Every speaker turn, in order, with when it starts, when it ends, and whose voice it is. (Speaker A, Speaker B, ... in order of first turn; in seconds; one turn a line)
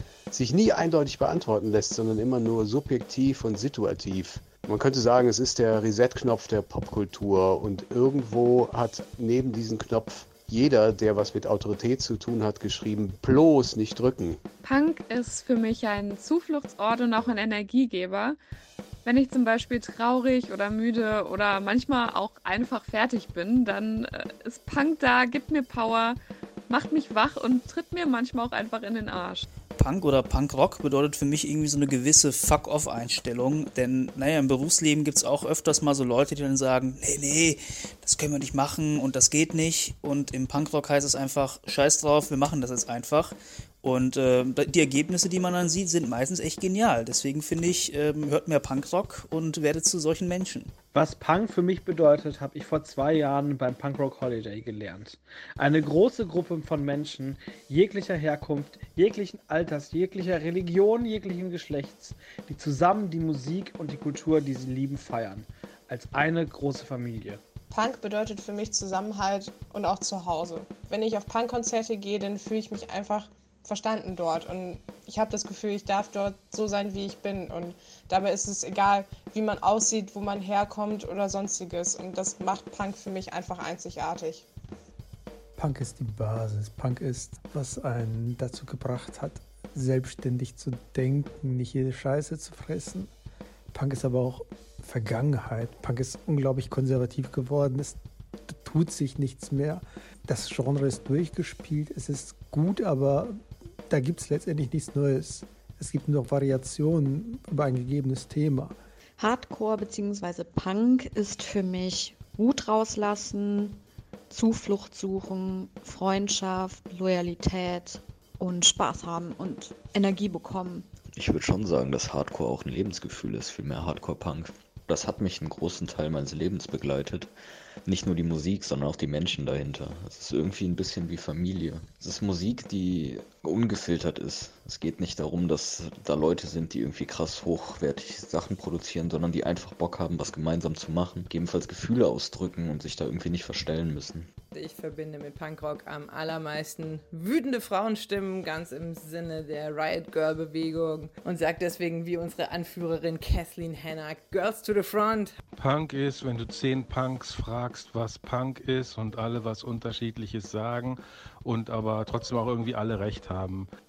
Speaker A: 0.3-14.4
Speaker B: 14.6-18.4
Speaker B: 19.1-29.5
Speaker C: 29.8-50.7
Speaker D: 50.9-67.4
Speaker E: 67.7-84.5
Speaker F: 85.6-93.1
Speaker F: 93.7-103.3
Speaker F: 103.9-108.8
Speaker G: 109.2-120.9
Speaker H: 121.2-127.3
Speaker H: 127.9-144.3
Speaker I: 144.5-155.4
Speaker J: 155.6-163.7